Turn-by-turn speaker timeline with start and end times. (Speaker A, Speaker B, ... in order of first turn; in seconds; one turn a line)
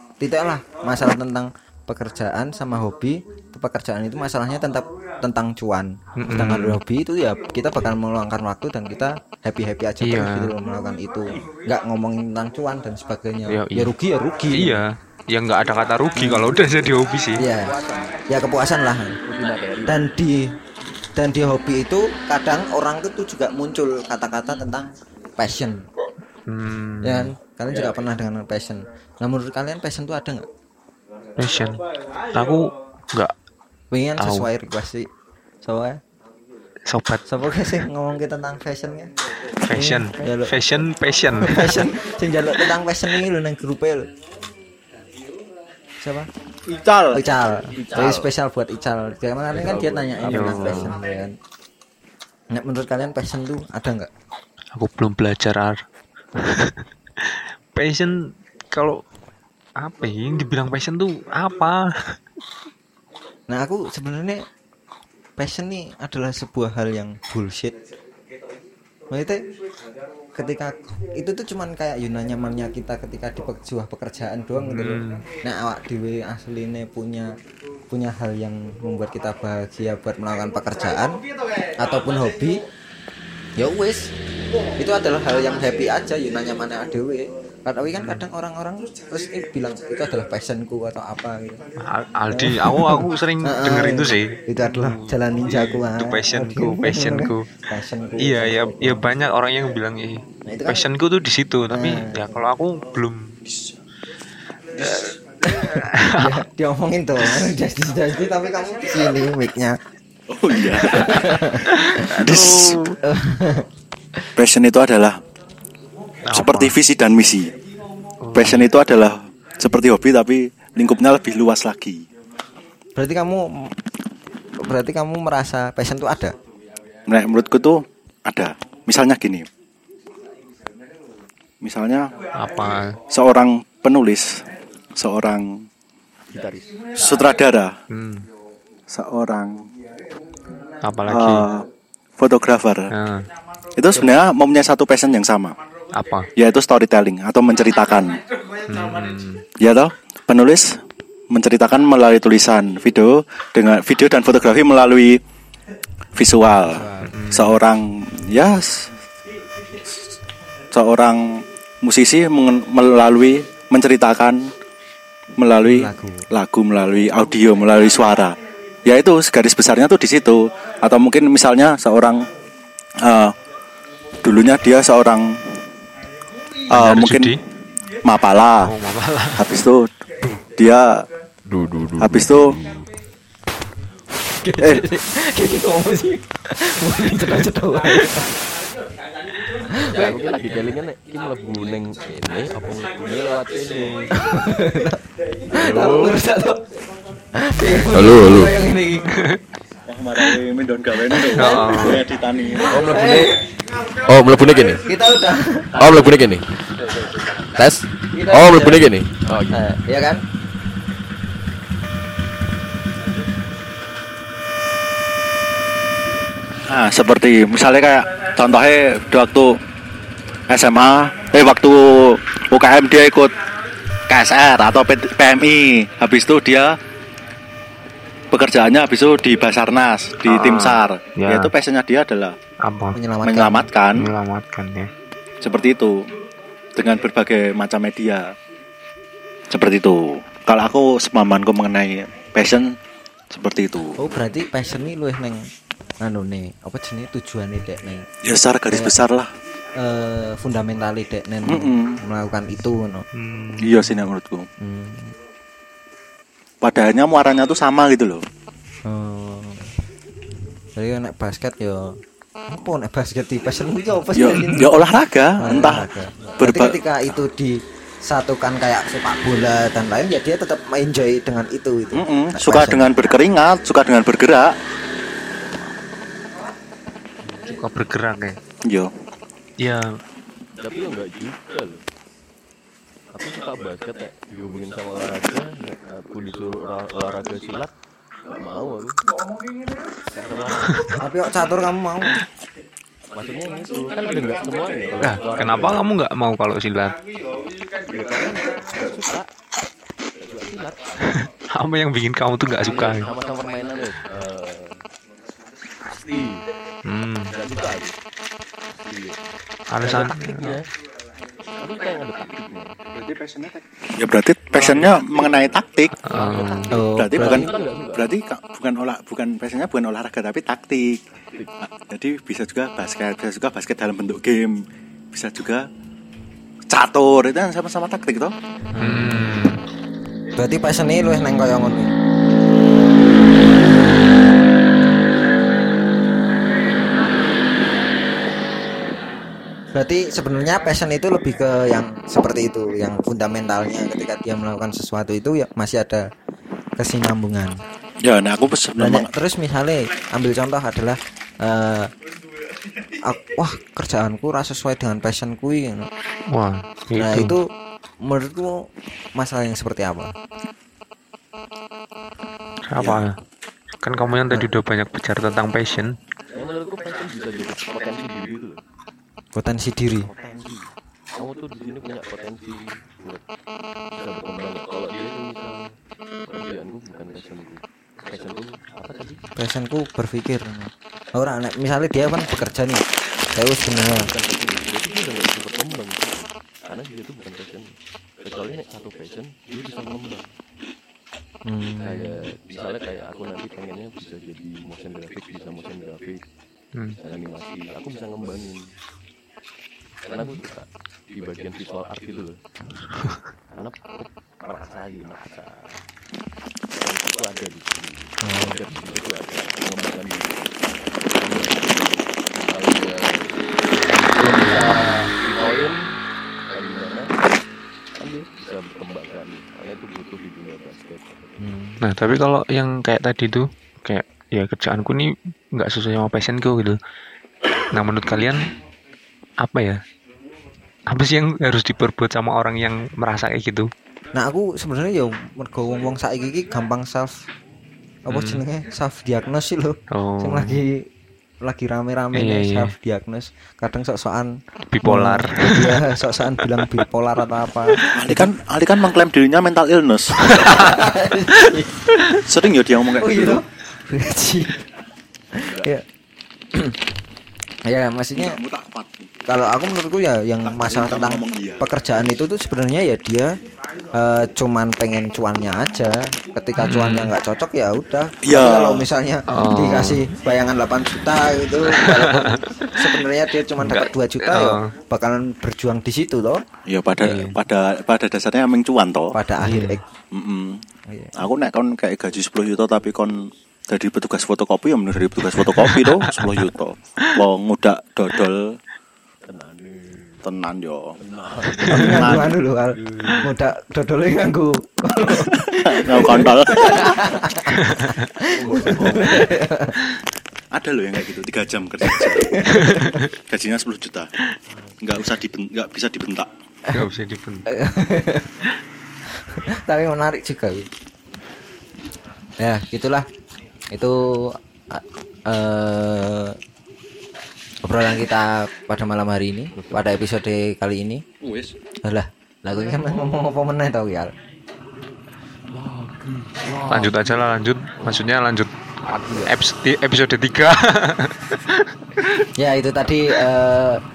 Speaker A: 0.2-14.8
Speaker B: 6.2-6.8
Speaker B: 10.0-10.5
Speaker B: 13.5-13.9
Speaker B: 14.5-17.5
Speaker A: 16.1-16.6
Speaker A: 17.4-19.2
Speaker C: 17.4-18.2
Speaker C: 19.2-20.0
Speaker A: 19.9-20.4
Speaker A: 21.2-25.8
Speaker B: 26.5-27.3
Speaker A: 27.0-30.5
Speaker C: 27.7-28.0
Speaker B: 31.4-31.8
Speaker B: 32.3-33.3
Speaker A: 33.9-35.1
Speaker B: 34.2-34.5
Speaker A: 35.6-36.0
Speaker B: 36.9-37.3
Speaker A: 37.3-39.1
Speaker B: 39.6-41.9
Speaker A: 39.7-40.6
Speaker A: 41.4-44.1
Speaker A: 46.0-46.3
Speaker D: 46.7-47.2
Speaker A: 47.1-51.4
Speaker C: 47.7-48.3
Speaker C: 49.5-51.0
Speaker B: 50.3-51.0
Speaker A: 52.5-54.1
Speaker B: 54.8-55.8
Speaker B: 56.4-59.0
Speaker B: 59.8-62.2
Speaker A: 63.5-64.5
Speaker A: 65.4-67.8
Speaker A: 69.1-69.4
Speaker A: 70.3-77.3
Speaker B: 74.6-75.3
Speaker A: 77.9-81.2
Speaker A: 81.8-82.6
Speaker A: 83.6-84.1
Speaker A: 84.8-91.6
Speaker B: 88.0-88.2
Speaker B: 91.8-97.5
Speaker A: 92.3-99.0
Speaker B: 98.2-103.3
Speaker A: 100.5-100.8
Speaker A: 101.7-102.3
Speaker D: 103.5-103.8
Speaker D: 104.8-105.1
Speaker A: 105.4-109.8
Speaker B: 105.9-106.4
Speaker B: 107.2-107.5
Speaker D: 110.3-111.3
Speaker A: 110.6-112.0
Speaker B: 111.7-113.0
Speaker D: 112.2-112.8
Speaker A: 113.0-113.7
Speaker D: 114.4-115.2
Speaker B: 116.3-116.8
Speaker D: 116.3-117.5
Speaker B: 118.2-118.7
Speaker D: 118.3-122.0
Speaker A: 123.0-123.7
Speaker A: 124.6-126.3
Speaker D: 127.1-129.5
Speaker D: 131.6-132.1
Speaker B: 132.4-132.9
Speaker D: 133.1-134.4
Speaker D: 135.0-135.7
Speaker C: 136.3-137.3
Speaker D: 136.9-137.8
Speaker B: 137.9-138.3
Speaker D: 138.9-139.7
Speaker B: 140.8-141.5
Speaker D: 141.1-141.7
Speaker D: 142.2-142.9
Speaker B: 142.9-143.3
Speaker D: 143.8-145.6
Speaker B: 145.9-146.3
Speaker D: 146.4-148.2
Speaker B: 148.7-149.4
Speaker D: 149.6-150.8
Speaker D: 151.3-155.2
Speaker D: 156.2-158.9
Speaker A: 156.5-157.2
Speaker B: 157.1-157.6
Speaker D: 160.7-164.5
Speaker D: 165.4-172.2
Speaker A: 165.6-166.3
Speaker D: 173.0-173.3
Speaker D: 174.2-175.6
Speaker D: 176.7-177.4
Speaker B: 176.7-177.4
Speaker D: 178.0-178.7
Speaker B: 178.6-179.5
Speaker D: 179.4-180.9
Speaker C: 181.5-182.9
Speaker D: 182.0-182.6
Speaker A: 184.4-188.4
Speaker D: 184.6-184.9
Speaker A: 189.7-190.2
Speaker C: 189.8-194.1
Speaker A: 194.2-195.0
Speaker C: 195.5-196.2
Speaker A: 195.5-196.6
Speaker A: 197.4-199.1
Speaker B: 197.6-198.2
Speaker C: 197.9-198.6
Speaker B: 199.1-199.4
Speaker D: 199.9-202.8
Speaker A: 201.1-202.0
Speaker B: 201.3-202.0
Speaker A: 202.5-203.4
Speaker C: 202.6-203.4
Speaker C: 204.1-204.8
Speaker A: 204.8-206.2
Speaker C: 205.8-209.6
Speaker A: 208.1-208.9
Speaker A: 209.5-210.2
Speaker D: 216.7-219.6
Speaker D: 220.5-223.3
Speaker D: 224.1-226.8
Speaker D: 228.3-232.4
Speaker B: 230.3-231.5
Speaker B: 232.6-233.0
Speaker A: 232.9-233.7
Speaker D: 233.2-234.1
Speaker B: 234.0-234.9
Speaker D: 235.4-235.9
Speaker D: 236.8-238.2
Speaker D: 239.5-242.7
Speaker D: 243.3-244.0
Speaker A: 244.0-245.4
Speaker A: 246.0-248.1
Speaker D: 248.2-249.3
Speaker A: 249.8-253.1
Speaker D: 251.5-252.0
Speaker B: 253.1-253.9
Speaker D: 253.6-254.5
Speaker A: 254.6-255.2
Speaker D: 256.6-258.2
Speaker A: 258.9-259.7
Speaker A: 260.8-261.9
Speaker A: 262.5-264.8
Speaker D: 264.2-265.9
Speaker A: 265.4-272.9
Speaker D: 266.4-266.8
Speaker D: 271.9-274.5
Speaker C: 277.2-277.6
Speaker B: 277.5-278.4
Speaker D: 278.6-278.9
Speaker B: 279.6-279.9
Speaker C: 280.6-281.8
Speaker C: 283.1-287.7
Speaker C: 288.3-289.0
Speaker C: 290.1-290.9
Speaker A: 291.0-292.1
Speaker C: 293.1-295.9
Speaker B: 295.0-297.0
Speaker C: 297.9-299.3
Speaker C: 300.2-301.3
Speaker B: 301.5-303.1
Speaker C: 302.5-304.8
Speaker C: 305.8-306.4
Speaker B: 306.9-307.3
Speaker C: 307.3-308.0
Speaker C: 308.8-309.2
Speaker B: 309.7-310.6
Speaker C: 309.8-310.7
Speaker C: 311.6-312.8
Speaker D: 312.9-316.0
Speaker C: 314.6-315.5
Speaker B: 316.1-316.7
Speaker C: 316.1-318.1
Speaker A: 316.7-317.5
Speaker D: 317.0-321.0
Speaker D: 321.9-325.7
Speaker D: 326.7-328.3
Speaker A: 328.7-329.3
Speaker B: 328.8-329.6
Speaker A: 330.4-331.9
Speaker A: 339.7-346.1
Speaker A: 346.8-347.6
Speaker D: 348.0-349.1
Speaker A: 348.8-351.9
Speaker A: 353.1-355.9
Speaker B: 356.3-357.4
Speaker A: 357.0-357.5
Speaker A: 358.0-360.1
Speaker B: 362.7-363.2
Speaker D: 362.8-363.1
Speaker B: 363.8-365.9
Speaker C: 366.3-368.6
Speaker A: 369.4-370.1
Speaker C: 370.1-373.2
Speaker C: 373.9-375.7
Speaker C: 376.3-379.2
Speaker A: 379.4-382.8
Speaker A: 383.3-384.1
Speaker C: 383.7-387.7
Speaker C: 388.2-390.3
Speaker A: 391.5-392.3
Speaker C: 391.8-396.2
Speaker C: 397.0-398.7
Speaker C: 400.0-402.4
Speaker C: 403.5-405.8
Speaker C: 406.7-413.4
Speaker A: 408.2-408.6
Speaker C: 414.0-415.9
Speaker C: 416.5-417.1
Speaker C: 417.9-421.4
Speaker A: 421.4-421.8
Speaker B: 421.8-426.8
Speaker B: 427.7-428.4
Speaker B: 429.4-429.8
Speaker B: 430.9-433.7
Speaker A: 434.1-437.2
Speaker A: 438.1-440.8
Speaker B: 438.1-438.4
Speaker B: 439.9-440.6
Speaker A: 441.4-448.3
Speaker B: 442.1-442.7
Speaker B: 444.7-445.8
Speaker D: 447.9-450.2
Speaker B: 450.3-450.8
Speaker A: 450.4-451.9
Speaker D: 452.2-453.4
Speaker A: 453.0-454.6
Speaker A: 455.3-455.8
Speaker C: 455.4-455.7
Speaker A: 457.7-458.4
Speaker D: 458.2-459.1
Speaker A: 459.3-463.3
Speaker D: 460.5-461.6
Speaker A: 463.9-476.4
Speaker B: 466.6-467.1
Speaker D: 468.2-468.9
Speaker B: 469.3-470.1
Speaker B: 471.8-472.3
Speaker B: 473.6-474.7
Speaker D: 476.7-479.1
Speaker B: 477.0-477.4
Speaker A: 479.1-479.8
Speaker B: 479.4-479.8
Speaker D: 480.1-480.6
Speaker A: 480.9-481.2
Speaker D: 481.2-483.1
Speaker D: 483.7-488.5
Speaker B: 485.3-486.5
Speaker C: 489.2-490.2
Speaker D: 490.2-491.0
Speaker C: 491.0-493.3
Speaker B: 491.6-492.1
Speaker A: 491.7-497.6
Speaker D: 491.7-492.3
Speaker D: 495.1-497.0
Speaker B: 497.5-498.0
Speaker A: 498.2-499.8
Speaker C: 498.3-499.3
Speaker D: 498.8-499.2
Speaker D: 500.5-502.4
Speaker A: 501.8-503.0
Speaker B: 502.5-503.0
Speaker D: 503.1-504.1
Speaker C: 504.5-504.8
Speaker D: 504.8-506.3
Speaker B: 506.7-507.5
Speaker A: 507.5-508.3
Speaker A: 509.3-510.7
Speaker A: 512.4-513.1
Speaker A: 513.7-516.4
Speaker A: 517.6-521.0
Speaker C: 519.5-519.9
Speaker A: 521.8-524.1
Speaker C: 525.5-527.2
Speaker B: 526.7-528.5
Speaker C: 528.9-529.4
Speaker B: 529.2-532.2
Speaker A: 532.4-533.8